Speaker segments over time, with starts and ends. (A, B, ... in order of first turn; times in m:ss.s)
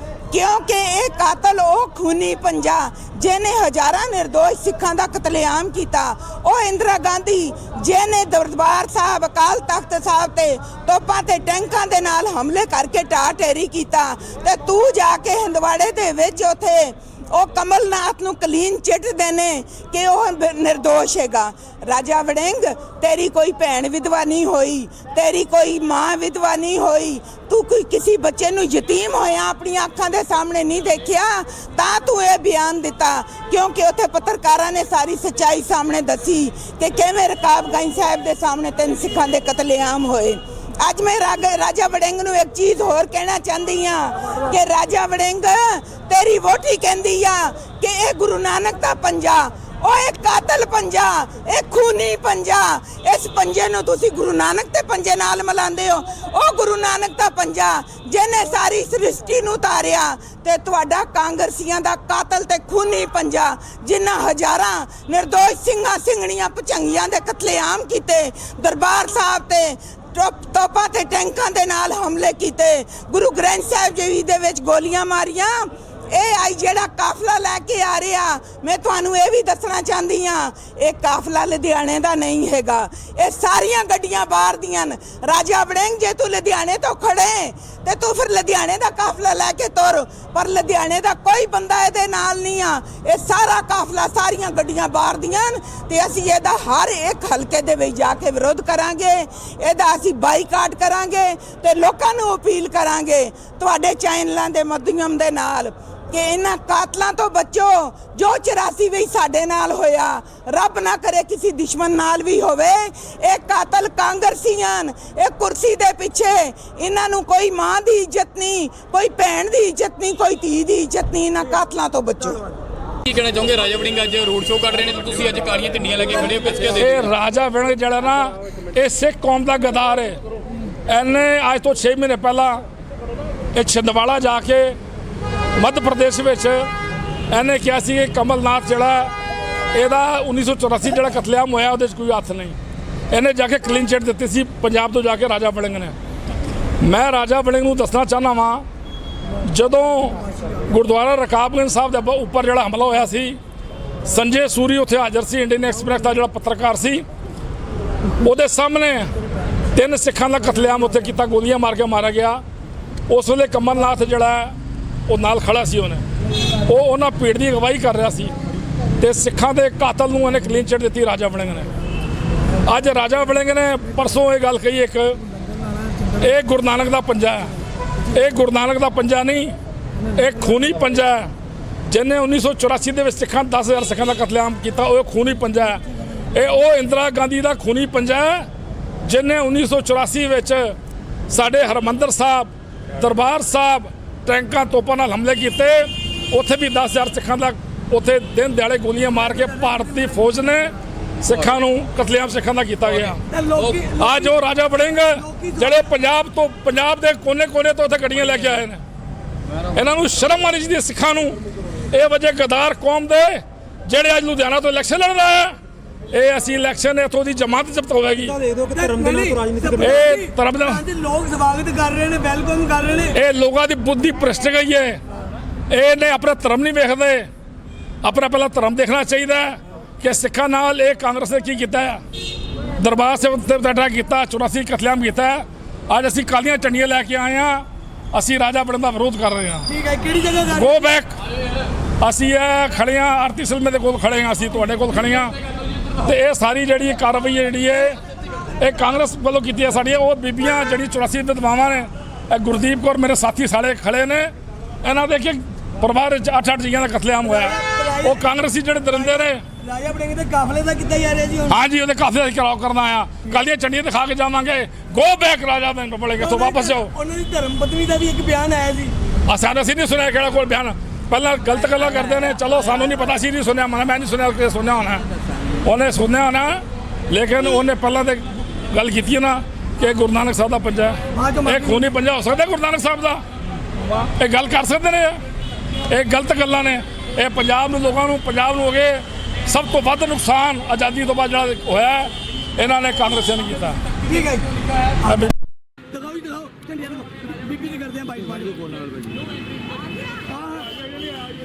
0:00.3-2:02.4 A
2:03.0-2:06.8 B
2:06.7-2:10.2 C
2:10.9-2:12.6 C
2:13.5-2:14.8 C
2:15.6-2:16.7 C
2:17.3-2:19.1 C
2:19.7-2:22.6 C
2:23.1-2:25.9 C
2:26.8-2:28.6 C
2:29.4-2:33.4 C
2:34.0-2:37.0 C
2:38.2-2:39.1 C
2:39.7-2:42.4 C
2:43.1-2:44.5 C
2:45.1-2:46.0 C
2:46.6-2:48.3 C
2:49.0-2:51.7 C
2:52.6-2:55.2 C
2:56.2-2:57.5 C
2:58.1-2:59.6 C
3:00.1-3:01.3 C
3:01.9-3:08.5 C
3:09.0-3:10.8 C
3:11.3-3:23.2 C
3:23.3-3:24.3 D
3:24.0-3:28.8 C
3:25.2-3:25.6 D
3:29.7-3:31.4 C
3:31.9-3:35.6 C
3:36.1-3:38.4 C
3:38.7-3:43.1 D
3:39.8-3:40.8 C
3:43.1-3:45.0 C
3:45.7-3:47.3 C
3:48.0-3:52.0 C
3:52.7-3:59.7 C
3:59.7-4:00.8 D
4:00.5-4:01.2 C
4:02.0-4:05.3 C
4:06.0-4:08.0 C
4:08.6-4:14.3 C
4:14.8-4:19.4 C
4:17.3-4:18.2 D
4:18.9-4:21.6 D
4:21.5-4:26.9 C
4:26.2-4:28.9 D
4:29.2-4:35.1 C
4:35.6-4:43.2 C
4:41.1-4:41.8 D
4:44.0-4:45.2 C
4:45.9-4:53.8 C
4:54.0-4:54.5 D
4:55.0-4:55.3 C
4:55.9-4:58.8 D
5:00.3-5:00.7 D